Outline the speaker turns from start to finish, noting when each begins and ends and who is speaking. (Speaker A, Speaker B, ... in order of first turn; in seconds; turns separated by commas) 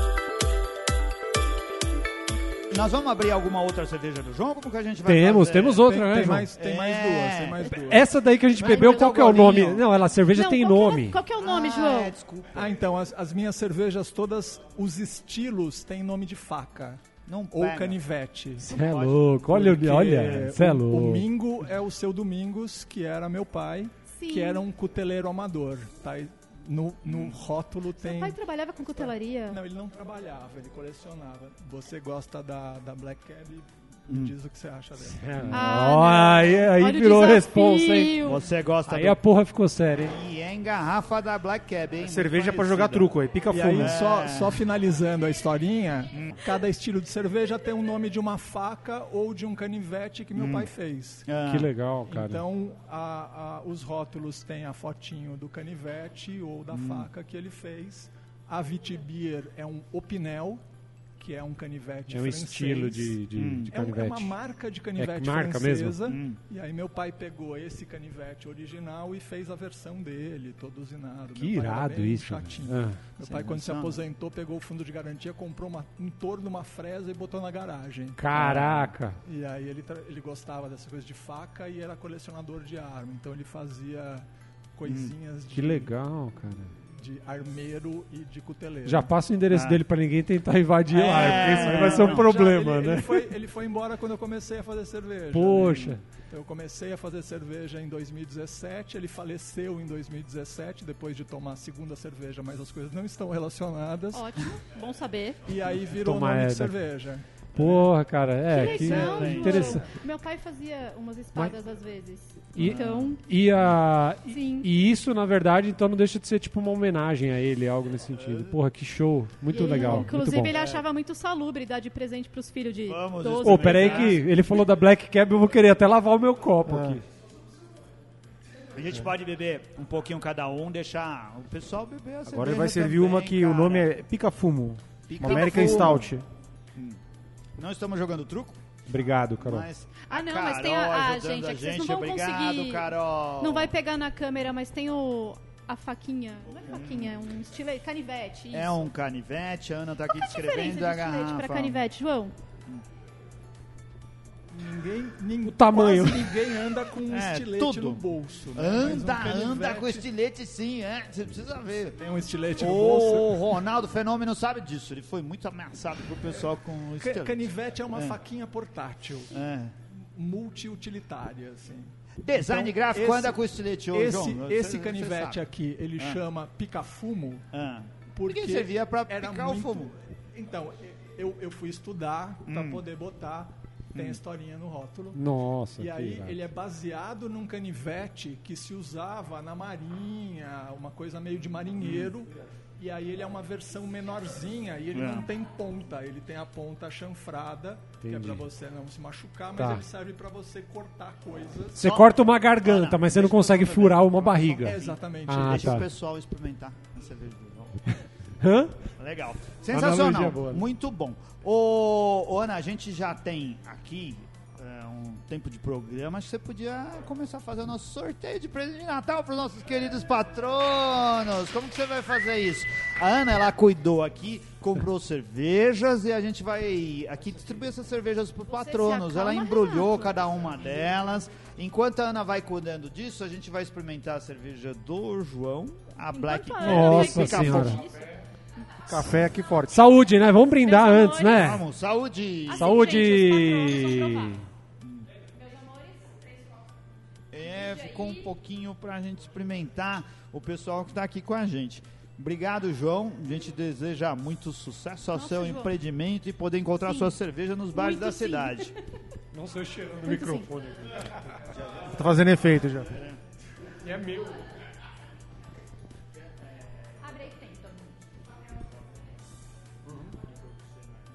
Speaker A: 2.7-5.8, Speaker B: 5.0-6.5, Speaker C: 5.8-8.1, Speaker A: 6.6-8.0, Speaker B: 7.7-11.2, Speaker A: 8.6-9.8, Speaker D: 10.3-12.1, Speaker A: 11.4-12.8, Speaker C: 12.6-17.0, Speaker A: 17.3-18.0, Speaker C: 17.5-18.8, Speaker B: 18.6-21.3, Speaker A: 18.7-19.4, Speaker C: 19.4-35.6, Speaker D: 24.1-24.6, Speaker A: 27.1-27.4, Speaker D: 28.0-29.6, Speaker B: 35.0-38.2, Speaker D: 35.5-38.5, Speaker A: 38.2-39.2, Speaker B: 38.9-40.2, Speaker A: 40.1-43.1, Speaker E: 42.0-44.0, Speaker C: 43.5-51.3, Speaker A: 43.8-44.6, Speaker A: 46.1-46.6, Speaker A: 50.4-50.7, Speaker A: 51.3-51.7, Speaker B: 51.4-52.4, Speaker C: 52.1-60.6, Speaker A: 56.7-57.1, Speaker C: 61.2-85.9, Speaker B: 62.1-64.3, Speaker A: 63.4-63.7, Speaker B: 65.0-66.0, Speaker A: 66.1-66.4, Speaker B: 71.3-73.0, Speaker A: 73.2-74.0, Speaker B: 78.2-79.2, Speaker A: 84.8-85.1, Speaker B: 85.5-86.7, Speaker C: 86.9-89.1, Speaker B: 88.8-93.3, Speaker A: 89.5-89.8, Speaker A: 90.9-92.3, Speaker C: 91.0-104.3, Speaker B: 95.3-96.0, Speaker D: 104.1-105.4, Speaker C: 105.5-107.9, Speaker B: 105.9-106.8, Speaker B: 107.5-109.8, Speaker D: 108.5-113.2, Speaker C: 108.5-109.9, Speaker A: 108.9-109.8, Speaker B: 112.5-120.6, Speaker A: 112.6-113.7, Speaker D: 114.3-114.7, Speaker A: 118.2-118.5, Speaker D: 119.5-124.2, Speaker A: 119.9-120.8, Speaker A: 122.9-124.2, Speaker B: 123.4-127.0, Speaker E: 126.7-127.0, Speaker A: 128.8-133.9, Speaker E: 132.3-136.3, Speaker A: 135.1-136.1, Speaker D: 135.2-136.0, Speaker A: 137.6-138.6, Speaker B: 138.9-139.7, Speaker A: 139.4-143.7, Speaker D: 140.1-148.9, Speaker A: 146.7-147.2, Speaker A: 148.5-151.8, Speaker D: 150.1-152.3, Speaker C: 154.5-160.1, Speaker B: 155.4-156.4, Speaker A: 157.1-158.0, Speaker A: 158.5-162.0, Speaker C: 162.0-163.4, Speaker A: 162.6-168.2, Speaker C: 167.0-169.3, Speaker A: 169.3-169.8, Speaker C: 169.9-173.4, Speaker A: 172.2-175.4, Speaker C: 173.9-177.5, Speaker A: 177.5-179.9, Speaker C: 178.1-185.2, Speaker A: 182.5-182.8, Speaker A: 183.9-184.2, Speaker B: 185.1-186.4, Speaker C: 185.8-201.8, Speaker A: 191.8-192.1, Speaker A: 194.9-195.3, Speaker B: 198.0-198.4, Speaker B: 199.6-199.8, Speaker B: 201.8-205.9, Speaker A: 201.8-207.9, Speaker C: 204.6-205.9, Speaker B: 208.4-208.8, Speaker A: 209.0-237.9, Speaker B: 209.7-210.7, Speaker D: 228.5-230.1, Speaker D: 236.1-238.1, Speaker B: 236.6-237.8, Speaker E: 238.9-239.8, Speaker B: 239.7-241.6, Speaker D: 240.7-241.6, Speaker A: 241.3-242.8, Speaker D: 242.5-244.3, Speaker B: 242.5-244.4, Speaker A: 244.8-245.1, Speaker A: 247.3-258.7, Speaker D: 255.1-255.7, Speaker D: 256.8-257.1, Speaker D: 257.7-258.7, Speaker B: 259.3-261.2, Speaker D: 260.1-260.5, Speaker A: 261.5-261.9, Speaker E: 261.9-263.0, Speaker B: 263.8-264.3, Speaker D: 267.0-267.8